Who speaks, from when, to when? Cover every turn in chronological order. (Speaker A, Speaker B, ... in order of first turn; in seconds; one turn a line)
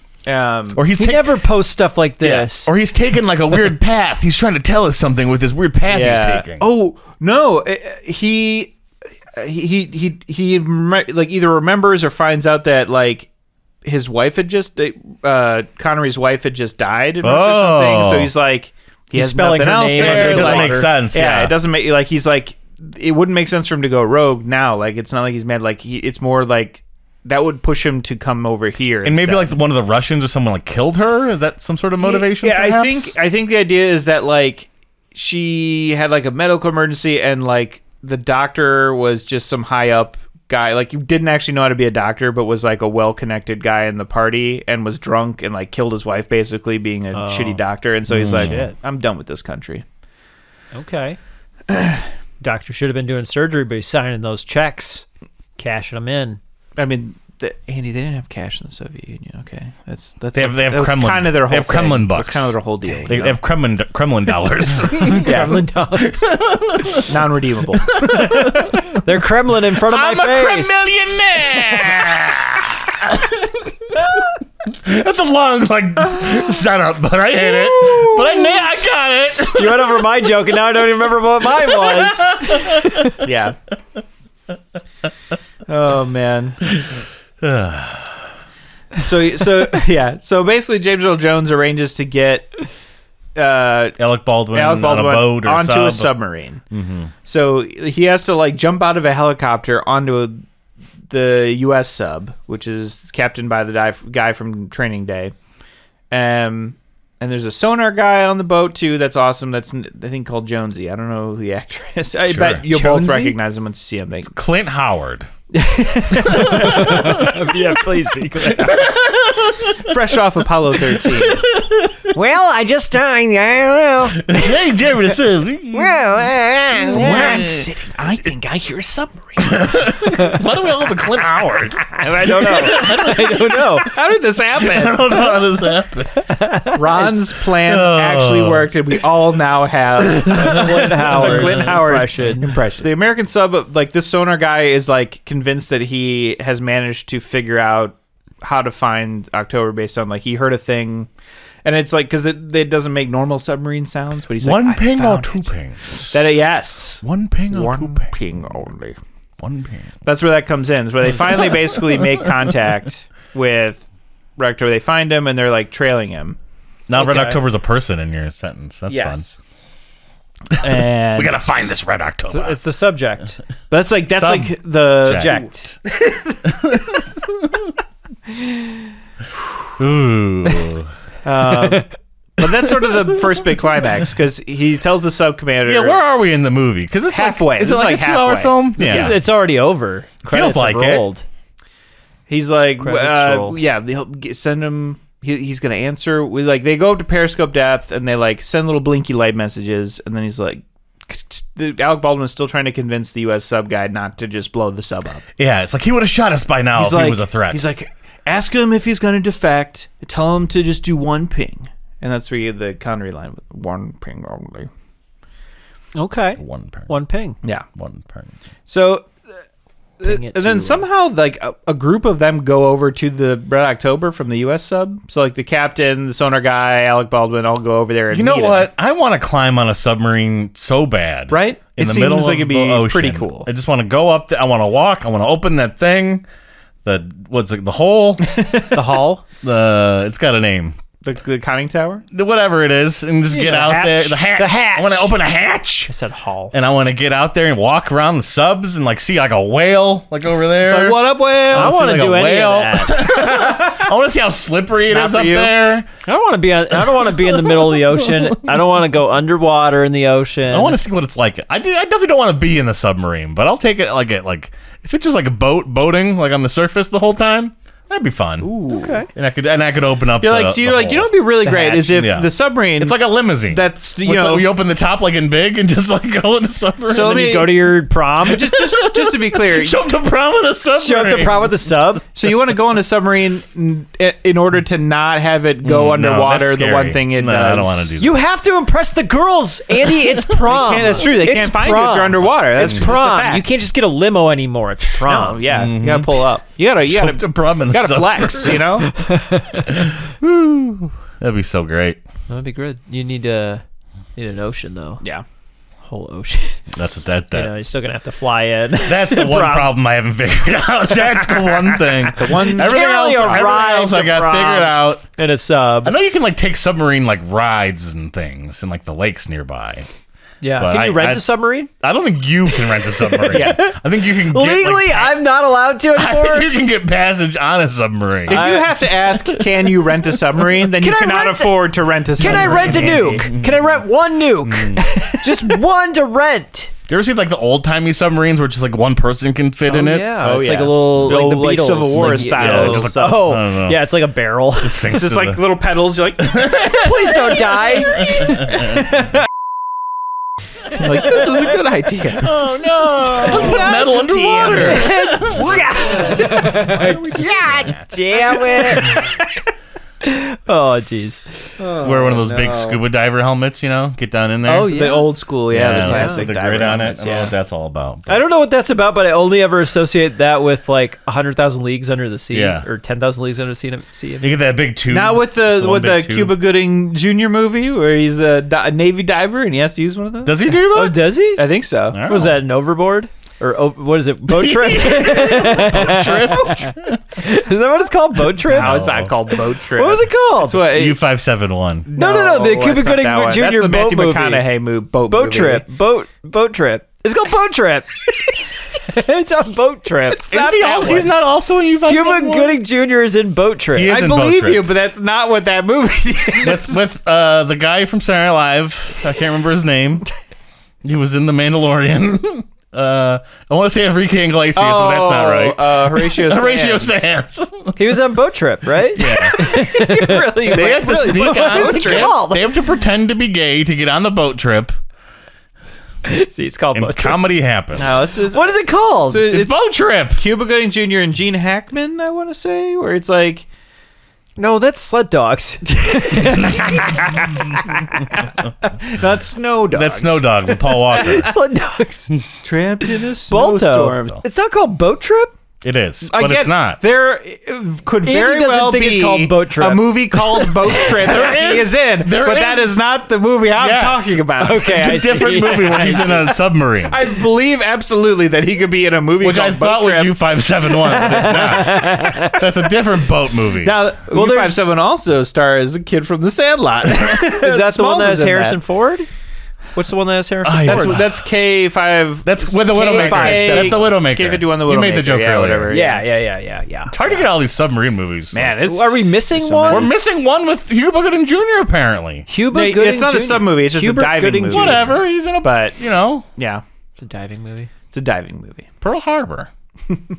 Speaker A: 0.2-0.8
Speaker B: 0.7-1.4
Speaker C: 0.9-2.7
Speaker B: 2.2-6.7
Speaker A: 5.9-8.7
Speaker A: 9.3-13.3
Speaker A: 13.8-29.6
Speaker B: 17.2-18.3
Speaker C: 19.1-20.9
Speaker B: 19.9-21.6
Speaker B: 29.0-33.1
Speaker A: 32.0-49.8
Speaker C: 47.1-47.6
Speaker B: 48.1-48.6
Speaker C: 48.3-48.7
Speaker C: 50.7-51.2
Speaker A: 51.7-52.0
Speaker C: 52.4-55.0
Speaker C: 55.6-56.4
Speaker A: 56.8-63.4
Speaker B: 60.3-67.1
Speaker C: 65.1-66.3
Speaker A: 65.1-65.6
Speaker A: 67.1-68.0
Speaker B: 67.9-68.8
Speaker C: 69.0-70.8
Speaker B: 69.8-80.0
Speaker C: 79.5-83.2
Speaker B: 81.7-83.0
Speaker A: 83.2-83.6
Speaker A: 85.7-86.6
Speaker B: 86.7-88.2
Speaker A: 89.0-92.7
Speaker A: 93.3-94.0
Speaker B: 94.0-96.1
Speaker A: 94.5-96.6
Speaker B: 96.7-97.1
Speaker A: 97.2-100.4
Speaker A: 101.1-105.3
Speaker A: 106.1-114.3
Speaker B: 112.2-112.7
Speaker C: 112.7-113.3
Speaker B: 114.3-115.3
Speaker A: 115.5-117.2
Speaker B: 116.2-117.2
Speaker C: 116.3-118.9
Speaker B: 118.8-119.9
Speaker A: 119.8-121.4
Speaker B: 121.1-122.0
Speaker C: 122.1-124.5
Speaker B: 124.1-126.1
Speaker C: 125.7-127.5
Speaker B: 126.8-127.7
Speaker A: 126.9-129.8
Speaker B: 129.4-133.8
Speaker C: 131.9-133.9
Speaker A: 133.8-135.2
Speaker B: 134.6-136.2
Speaker C: 136.1-137.2
Speaker A: 136.7-151.1
Speaker B: 137.6-138.7
Speaker B: 140.0-141.8
Speaker C: 140.2-142.6
Speaker A: 151.6-158.9
Speaker B: 154.4-156.2
Speaker B: 157.0-158.1
Speaker B: 159.4-159.9
Speaker A: 160.0-163.8
Speaker A: 164.4-166.4
Speaker B: 166.9-169.2
Speaker C: 166.9-167.4
Speaker A: 168.9-169.2
Speaker A: 170.6-171.7
Speaker B: 170.6-172.6
Speaker C: 172.3-173.4
Speaker A: 173.7-175.5
Speaker B: 174.1-175.5
Speaker C: 175.1-175.7
Speaker B: 176.4-176.8
Speaker B: 179.8-180.9
Speaker A: 181.2-186.0
Speaker C: 181.6-181.9
Speaker B: 185.6-189.2
Speaker A: 187.1-189.1
Speaker C: 188.8-191.2
Speaker B: 190.2-191.1
Speaker A: 192.3-205.2
Speaker C: 192.8-193.6
Speaker B: 205.4-207.7
Speaker A: 206.8-214.7
Speaker C: 215.9-217.4
Speaker B: 216.4-216.9
Speaker B: 217.7-218.3
Speaker A: 218.7-219.2
Speaker A: 220.0-228.7
Speaker C: 220.0-220.8
Speaker B: 228.1-236.2
Speaker A: 231.3-233.5
Speaker B: 236.8-238.3
Speaker A: 238.3-238.6
Speaker C: 238.7-239.2
Speaker B: 239.4-240.8
Speaker A: 241.0-242.0
Speaker B: 242.1-245.9
Speaker C: 243.3-245.2
Speaker C: 245.9-246.5
Speaker B: 246.5-255.9
Speaker A: 250.6-252.3
Speaker C: 251.5-253.1
Speaker A: 252.9-253.8
Speaker A: 254.9-255.8
Speaker C: 256.1-260.8
Speaker B: 257.0-258.4
Speaker B: 260.5-268.5
Speaker A: 268.4-269.0
Speaker C: 268.8-269.1
Speaker B: 269.1-271.1
Speaker A: 270.2-274.5
Speaker C: 271.4-272.1
Speaker B: 271.9-277.2
Speaker A: 276.9-279.8
Speaker C: 276.9-278.5
Speaker B: 278.6-281.6
Speaker C: 280.7-282.0
Speaker A: 282.1-287.9
Speaker B: 285.6-288.2
Speaker C: 288.0-295.4
Speaker A: 290.4-293.5
Speaker A: 295.0-298.9
Speaker B: 295.5-296.2
Speaker B: 296.8-298.7
Speaker C: 298.8-299.6
Speaker B: 299.6-302.0
Speaker C: 302.3-303.6
Speaker C: 304.2-305.0
Speaker C: 305.8-306.6
Speaker B: 306.7-307.5
Speaker C: 307.3-309.7
Speaker B: 308.8-315.0
Speaker A: 312.1-313.7
Speaker C: 312.4-315.9
Speaker B: 315.8-319.9
Speaker C: 320.4-321.7
Speaker B: 320.6-321.3
Speaker B: 321.8-325.2
Speaker C: 323.3-326.5
Speaker A: 323.3-323.7
Speaker B: 325.9-328.5
Speaker A: 328.3-333.3
Speaker C: 328.3-328.7
Speaker B: 329.1-329.7
Speaker C: 330.8-336.7
Speaker B: 332.2-333.6
Speaker B: 334.4-334.9
Speaker A: 334.9-335.5
Speaker B: 336.9-340.2
Speaker C: 339.7-344.9
Speaker A: 340.2-343.3
Speaker B: 340.9-341.2
Speaker B: 341.9-343.9
Speaker B: 344.6-345.4
Speaker A: 344.9-346.8
Speaker B: 346.2-347.1
Speaker C: 346.8-348.1
Speaker A: 347.8-348.9
Speaker B: 348.0-348.8
Speaker A: 350.7-352.4
Speaker B: 352.2-357.8
Speaker C: 352.7-353.8
Speaker A: 353.2-357.6
Speaker C: 354.6-359.1
Speaker A: 358.1-359.1
Speaker C: 360.0-362.8
Speaker B: 361.8-364.8
Speaker C: 364.4-365.1
Speaker A: 364.7-367.3
Speaker B: 365.5-368.2
Speaker C: 365.8-366.3
Speaker C: 368.1-374.4
Speaker B: 372.3-372.6
Speaker B: 374.2-376.4
Speaker A: 374.9-380.5
Speaker B: 380.2-381.1
Speaker C: 380.7-381.4
Speaker A: 381.4-382.0
Speaker B: 381.9-382.4
Speaker C: 382.1-388.9
Speaker B: 384.3-387.0
Speaker B: 388.4-389.1
Speaker A: 388.5-391.0
Speaker C: 389.8-390.7
Speaker B: 390.6-391.9
Speaker A: 391.9-395.6
Speaker C: 391.9-394.5
Speaker C: 395.1-398.3
Speaker C: 398.8-401.1
Speaker B: 400.3-402.6
Speaker C: 401.8-404.0
Speaker B: 403.7-404.7
Speaker A: 403.8-406.8
Speaker B: 406.4-410.1
Speaker B: 410.8-417.8
Speaker A: 414.5-417.1
Speaker C: 417.8-422.6
Speaker B: 418.9-419.4
Speaker A: 419.1-422.2
Speaker B: 420.4-424.8
Speaker C: 426.0-427.2
Speaker B: 426.7-427.9
Speaker A: 427.8-433.4
Speaker C: 428.3-429.3
Speaker B: 429.2-430.2
Speaker C: 434.4-437.1
Speaker A: 438.8-440.4
Speaker B: 439.7-441.3
Speaker C: 440.9-442.1
Speaker A: 442.4-444.2
Speaker C: 443.3-445.3
Speaker B: 445.6-446.8
Speaker A: 446.0-455.0
Speaker C: 448.0-450.2
Speaker B: 450.8-452.8
Speaker B: 453.5-457.0
Speaker C: 454.4-456.3
Speaker A: 455.9-456.1
Speaker A: 456.9-460.2
Speaker B: 459.2-463.8
Speaker C: 460.9-462.4
Speaker A: 463.6-468.6
Speaker C: 464.1-464.7
Speaker C: 467.3-469.1
Speaker C: 469.7-471.0
Speaker B: 470.4-471.2
Speaker A: 470.7-476.0
Speaker B: 472.2-475.8
Speaker C: 472.7-473.9
Speaker C: 475.7-477.2
Speaker B: 476.9-478.6
Speaker A: 478.3-479.9
Speaker C: 478.6-479.9
Speaker B: 479.7-482.3
Speaker C: 482.3-484.9
Speaker A: 482.5-485.8
Speaker B: 484.5-486.2
Speaker A: 486.4-486.6
Speaker C: 487.0-487.7
Speaker A: 487.9-488.7
Speaker B: 488.8-489.5